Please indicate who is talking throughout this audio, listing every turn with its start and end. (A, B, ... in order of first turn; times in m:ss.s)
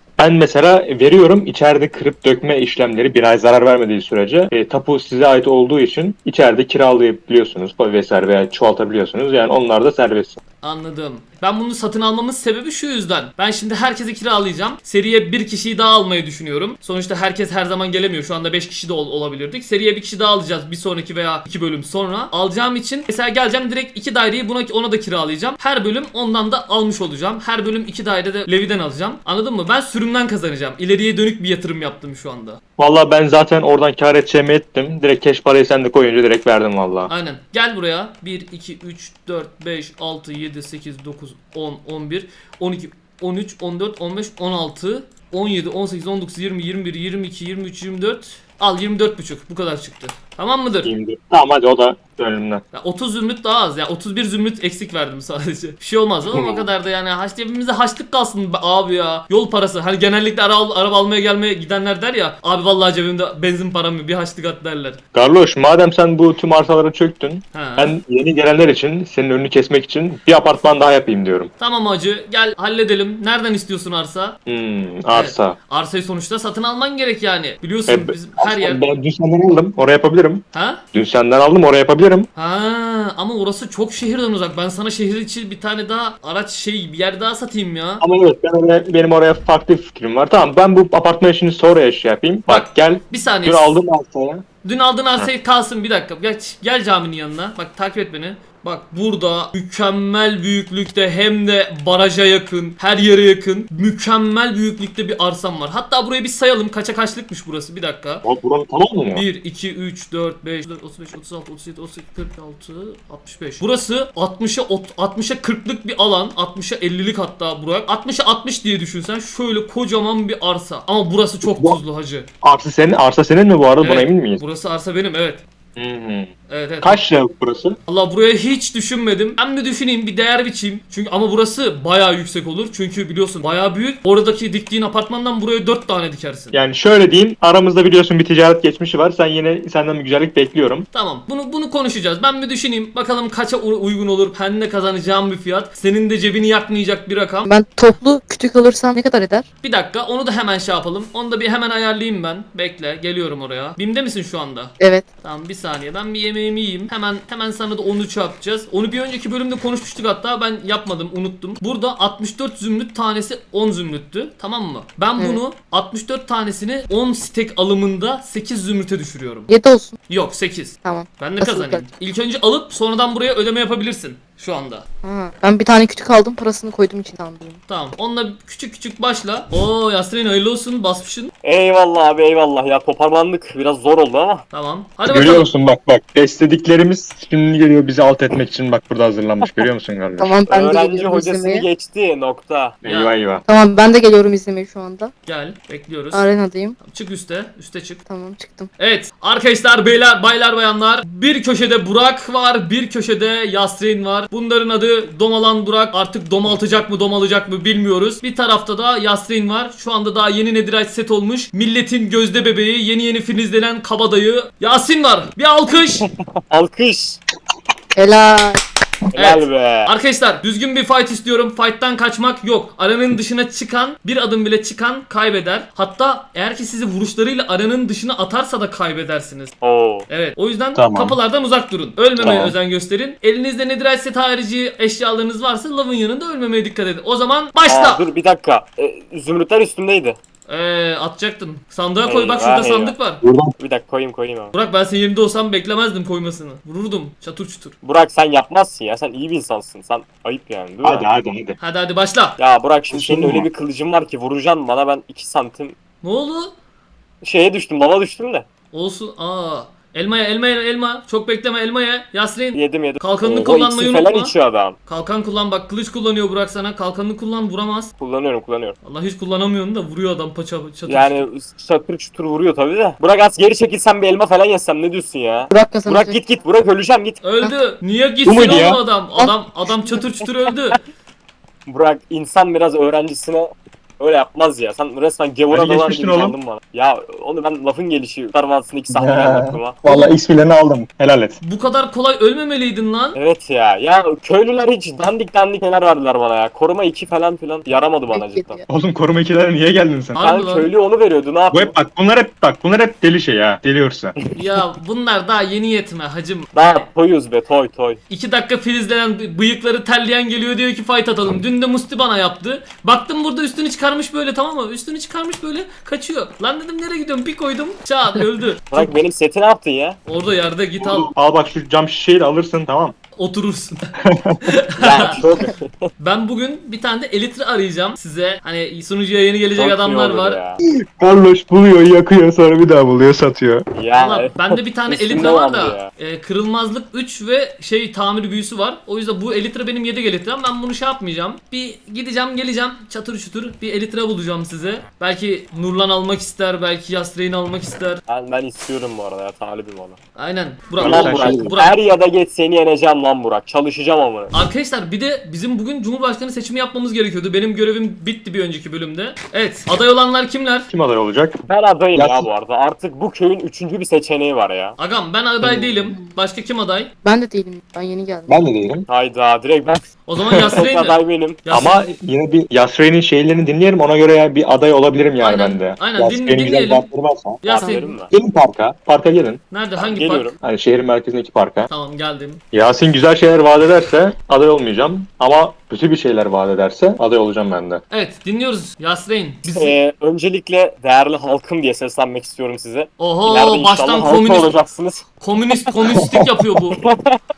0:00.2-0:10.4 A
0:10.6-0:32.6 B
0:32.8-0:37.1 A
0:37.1-0:50.9 B
0:50.8-0:52.6 A
0:52.7-1:05.0 B
0:56.3-0:56.7 A
1:05.1-1:11.5 A
1:07.5-1:07.9 B
1:11.6-1:14.4 B
1:14.5-1:15.6 A
1:15.1-1:18.8 B
1:17.9-1:22.3 A
1:20.5-1:20.8 B
1:22.4-1:28.0 B
1:28.0-1:34.4 A
1:32.5-1:33.8 B
1:34.6-1:48.2 B
1:48.2-1:49.2 A
1:49.1-2:02.3 B
2:01.4-2:01.8 A
2:02.4-2:04.4 A
2:03.8-2:05.4 B
2:05.8-2:07.8 A
2:06.5-2:07.0 B
2:07.9-2:16.6 B
2:16.5-2:20.9 A
2:20.9-2:27.5 B
2:27.4-2:29.4 C
2:29.6-2:34.7 B
2:34.8-2:35.0 C
2:35.2-2:49.5 B
2:49.5-2:50.0 C
2:50.1-2:54.8 B
2:50.8-2:51.8 C
2:55.0-2:57.6 C
2:57.7-3:01.3 B
3:01.4-3:04.4 D
3:04.5-3:05.5 B
3:05.1-3:10.3 A
3:10.2-3:11.6 C
3:10.5-3:12.8 D
3:12.8-3:13.4 A
3:12.8-3:13.1 B
3:13.4-3:15.1 C
3:15.2-3:16.3 B
3:16.1-3:16.8 C
3:16.8-3:18.0 B
3:18.1-3:18.7 C
3:18.8-3:36.1 B
3:36.5-3:37.2 D
3:38.0-3:38.6 C
3:39.1-3:39.9 D
3:39.2-3:49.5 B
3:49.6-3:50.1 D
3:50.1-3:58.0 B
3:50.7-3:51.2 A
3:52.2-3:52.5 A
3:52.2-3:52.5 D
3:57.7-4:00.2 D
4:00.5-4:03.2 B
4:02.0-4:03.0 D
4:03.2-4:03.5 A
4:03.6-4:04.5 D
4:04.5-4:07.7 B
4:07.8-4:11.1 D
4:10.8-4:11.6 A
4:11.6-4:12.4 B
4:12.4-4:15.8 D
4:12.9-4:13.5 A
4:16.0-4:16.5 B
4:17.2-4:18.4 D
4:18.7-4:24.3 B
4:22.5-4:24.8 D
4:24.9-4:27.9 B
4:28.0-4:28.8 D
4:28.8-4:31.2 B
4:30.8-4:37.2 D
4:35.5-4:36.2 C
4:37.2-4:40.8 B
4:38.2-4:38.8 A
4:39.2-4:40.0 C
4:41.7-4:49.8 D
4:45.5-4:46.4 A
4:48.9-4:51.4 A
4:51.4-4:53.2 B
4:53.1-4:58.6 D
4:58.1-4:58.7 C
4:58.7-5:00.2 A
5:00.1-5:00.7 B
5:00.2-5:01.7 D
5:01.5-5:04.2 A
5:04.3-5:06.5 B
5:06.5-5:08.0 D
5:08.1-5:18.9 B
5:18.7-5:20.0 D
5:20.0-5:21.1 B
5:20.8-5:22.9 A
5:23.2-5:23.9 B
5:24.0-5:24.4 A
5:24.4-5:25.2 B
5:24.8-5:25.9 D
5:26.0-5:30.4 B
5:29.6-5:30.6 D
5:31.0-5:33.6 A
5:33.7-5:35.9 D
5:33.9-5:48.0 B
5:48.1-5:50.0 D
5:50.2-5:51.8 B
5:50.8-5:51.5 A
5:50.8-5:54.3 D
5:54.3-6:00.7 B
6:00.7-6:01.4 A
6:01.4-6:04.8 D
6:02.0-6:02.3 A
6:04.8-6:06.9 B
6:05.4-6:05.8 A
6:07.0-6:08.4 C
6:08.3-6:08.9 A
6:08.9-6:09.9 D
6:10.1-6:11.8 B
6:10.3-6:10.6 A
6:10.5-6:11.4 D
6:11.5-6:17.4 A
6:15.2-6:16.8 B
6:17.4-6:18.0 B
6:17.4-6:18.1 D
6:18.1-6:19.4 A
6:19.5-6:20.3 B
6:19.8-6:20.3 D
6:20.4-6:21.7 A
6:21.7-6:22.4 B
6:22.5-6:27.8 A
6:27.9-6:29.8 B
6:29.5-6:35.1 D
6:33.0-6:34.6 B
6:35.2-6:36.8 B
6:36.7-6:37.2 D